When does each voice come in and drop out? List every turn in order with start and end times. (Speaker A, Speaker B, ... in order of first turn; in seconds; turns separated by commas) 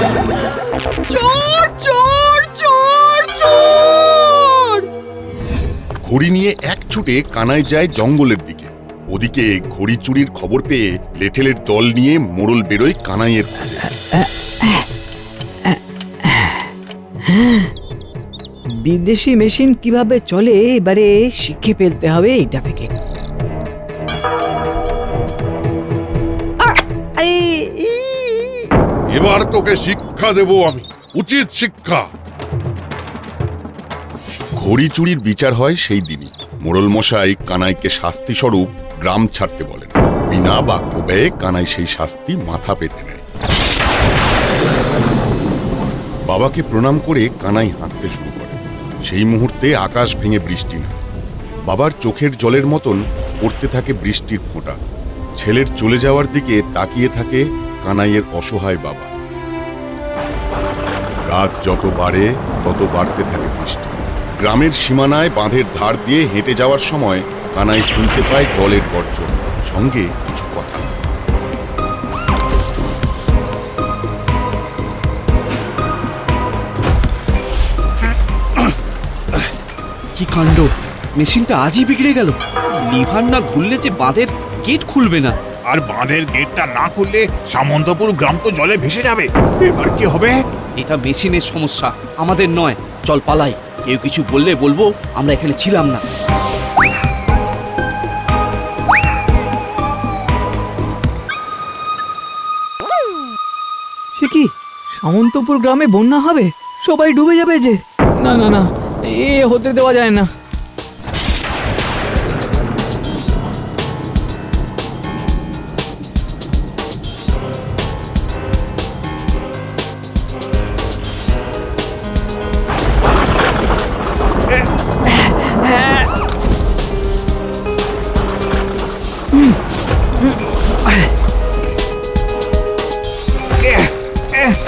Speaker A: 1.2-3.3, Speaker B: 6.0-13.8, Speaker C: 13.8-14.9, Speaker C: 15.6-16.7, Speaker C: 17.2-17.7, Speaker C: 18.8-22.9, Speaker C: 27.2-28.6, Speaker D: 29.1-32.1, Speaker B: 34.6-43.2, Speaker B: 46.3-51.0, Speaker B: 51.6-54.8, Speaker B: 55.4-59.1, Speaker B: 61.2-70.9, Speaker E: 80.2-85.4, Speaker F: 85.7-90.4, Speaker E: 90.8-96.0, Speaker C: 104.2-110.3, Speaker C: 125.1-126.1, Speaker C: 129.3-129.7, Speaker C: 130.2-131.1